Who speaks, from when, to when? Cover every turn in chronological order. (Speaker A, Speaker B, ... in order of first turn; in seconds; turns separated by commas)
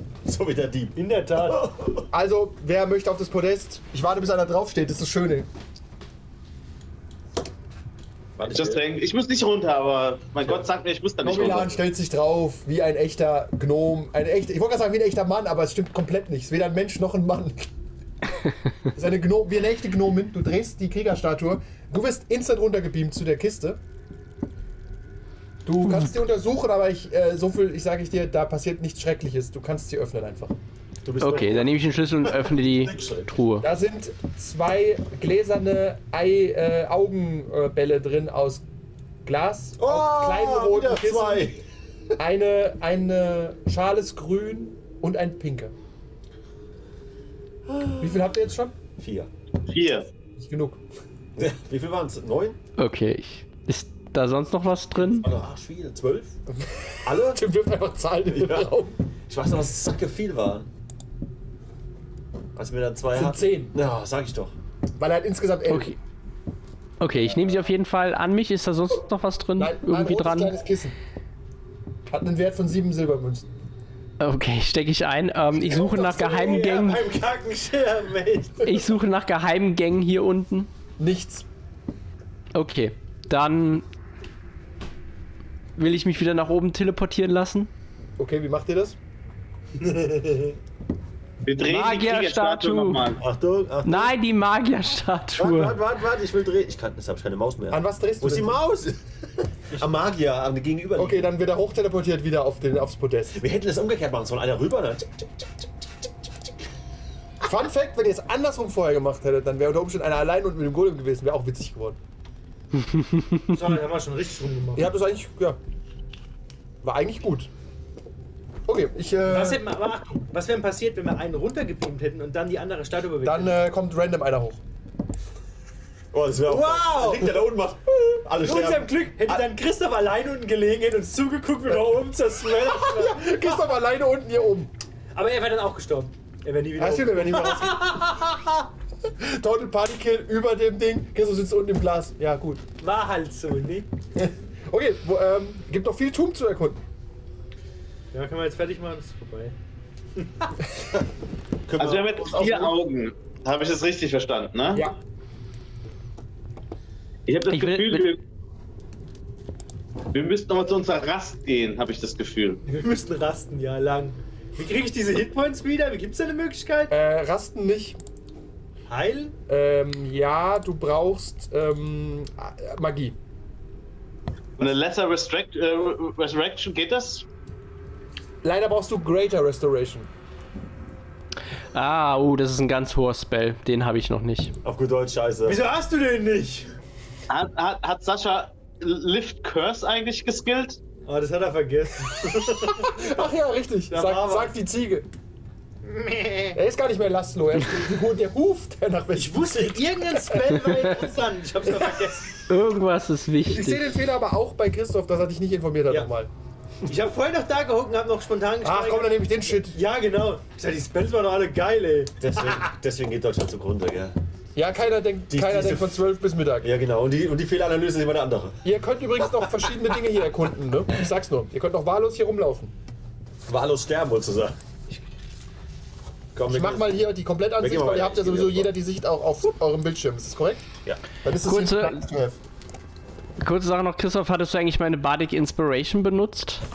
Speaker A: 0.2-2.1, Speaker B: 0.9-1.7, Speaker C: 2.1-5.5, Speaker A: 8.4-8.8, Speaker D: 8.5-11.8, Speaker C: 11.2-17.7, Speaker A: 11.3-11.7, Speaker C: 18.9-23.8, Speaker C: 25.6-30.5, Speaker A: 31.0-33.4, Speaker E: 31.2-33.7, Speaker C: 33.6-38.6, Speaker C: 39.2-41.5, Speaker A: 39.8-41.6, Speaker C: 42.2-45.7, Speaker A: 47.7-48.3, Speaker C: 48.0-48.8, Speaker A: 49.0-49.3, Speaker D: 49.7-50.1, Speaker C: 50.4-50.8, Speaker A: 51.4-52.6, Speaker E: 52.8-55.3, Speaker A: 55.0-56.4, Speaker C: 56.6-59.0, Speaker A: 57.0-57.4, Speaker A: 58.3-58.7, Speaker A: 59.3-60.7, Speaker A: 62.5-64.5, Speaker C: 63.1-63.8, Speaker C: 65.0-65.9, Speaker E: 65.7-66.0, Speaker E: 67.0-70.5, Speaker C: 69.6-71.0, Speaker C: 72.1-73.5, Speaker E: 74.2-77.0, Speaker B: 75.6-78.9, Speaker E: 78.6-80.7, Speaker C: 81.0-81.5, Speaker E: 82.5-83.9, Speaker E: 85.8-87.7, Speaker C: 88.2-89.0, Speaker B: 89.8-90.6, Speaker D: 91.5-93.2, Speaker E: 91.6-93.1, Speaker A: 93.2-94.1, Speaker E: 93.8-95.8, Speaker A: 95.3-99.0, Speaker C: 97.7-98.6, Speaker A: 99.7-101.3, Speaker C: 100.9-103.4, Speaker A: 103.3-105.6, Speaker C: 107.4-112.0, Speaker E: 112.8-113.4, Speaker B: 113.5-114.9, Speaker C: 114.8-115.6, Speaker C: 116.8-117.5, Speaker C: 118.7-119.7, Speaker B: 119.3-123.6, Speaker C: 123.2-124.6, Speaker A: 126.1-128.9, Speaker B: 126.5-127.4, Speaker B: 128.4-133.6, Speaker C: 132.6-134.7, Speaker B: 135.1-137.9, Speaker C: 136.8-142.6, Speaker B: 142.8-143.9, Speaker C: 144.2-146.8, Speaker B: 148.1-149.6, Speaker B: 150.2-150.5, Speaker A: 151.7-152.8, Speaker D: 151.8-154.8, Speaker D: 157.3-158.2, Speaker E: 157.5-158.1, Speaker D: 160.1-162.6, Speaker B: 162.7-166.9, Speaker C: 166.9-168.0, Speaker B: 168.9-169.3, Speaker C: 169.5-173.2, Speaker D: 174.6-177.2, Speaker C: 178.4-180.1, Speaker E: 181.7-184.5, Speaker A: 184.6-185.6, Speaker B: 185.4-186.7, Speaker D: 187.3-190.8, Speaker B: 191.1-193.1, Speaker C: 192.7-195.1, Speaker B: 193.9-194.5, Speaker B: 195.8-196.6, Speaker C: 196.5-200.6, Speaker B: 199.1-202.4, Speaker E: 202.5-203.9, Speaker C: 203.4-206.3, Speaker B: 206.8-212.7, Speaker C: 208.6-209.8, Speaker A: 212.2-214.1, Speaker C: 214.5-216.7, Speaker A: 215.3-218.6, Speaker C: 218.6-222.7, Speaker A: 223.5-224.6, Speaker A: 226.3-227.0, Speaker C: 226.4-230.7, Speaker A: 227.6-228.7, Speaker C: 231.2-232.4, Speaker E: 231.4-232.0, Speaker E: 233.4-236.6